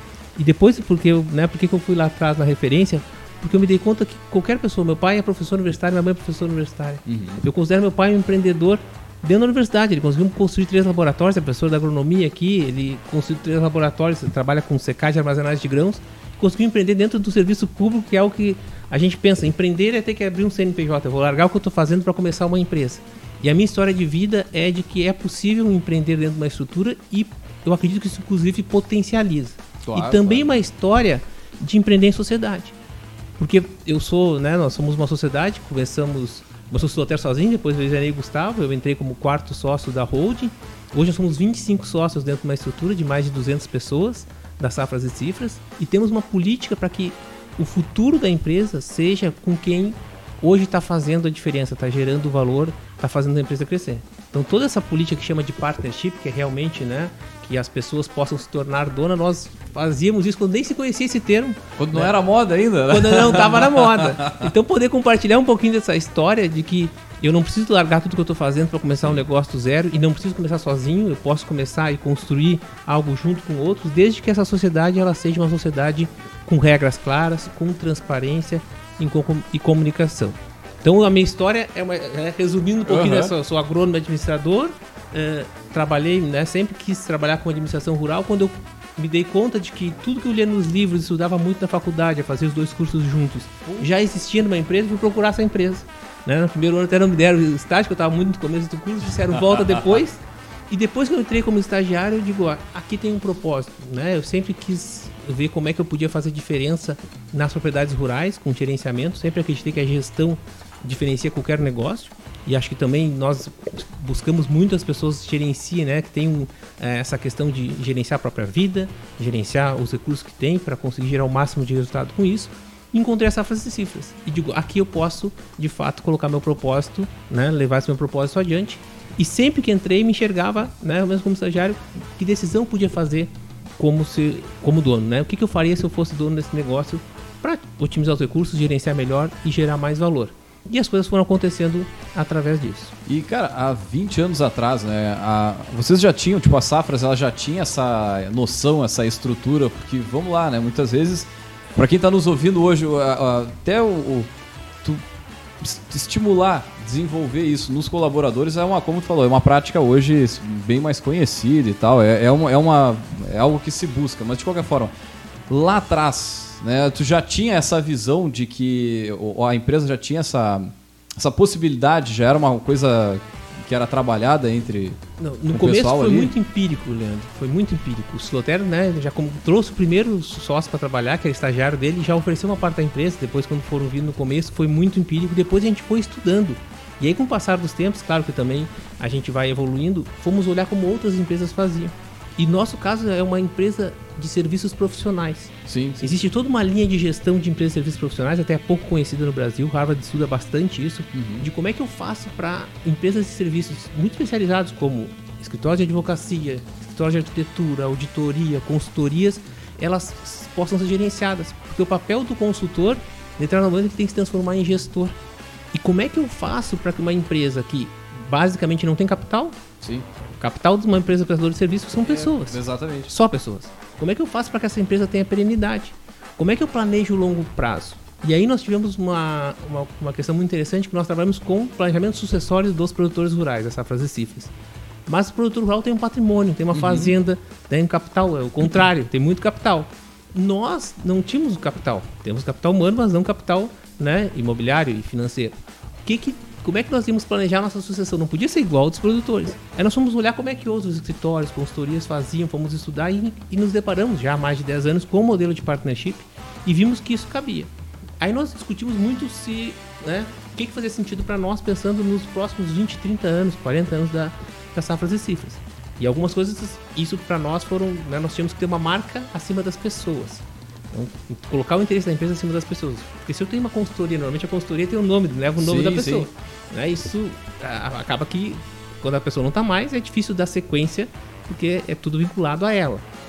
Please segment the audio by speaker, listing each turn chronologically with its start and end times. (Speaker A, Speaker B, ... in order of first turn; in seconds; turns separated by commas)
Speaker A: 0.3-32.8, Speaker B: 7.0-7.4, Speaker B: 29.8-30.5, Speaker A: 33.4-62.1, Speaker B: 61.8-64.5, Speaker A: 62.9-142.9, Speaker B: 82.8-83.3, Speaker B: 99.5-99.8, Speaker B: 143.1-154.3, Speaker B: 155.6-164.9, Speaker B: 165.5-175.0, Speaker A: 175.2-215.2, Speaker B: 175.5-176.3, Speaker B: 195.7-196.1, Speaker B: 201.1-201.5, Speaker A: 215.7-219.6, Speaker B: 219.8-220.1, Speaker A: 220.4-234.5, Speaker B: 222.0-223.1, Speaker A: 235.1-283.0, Speaker B: 236.7-237.1, Speaker B: 275.6-276.3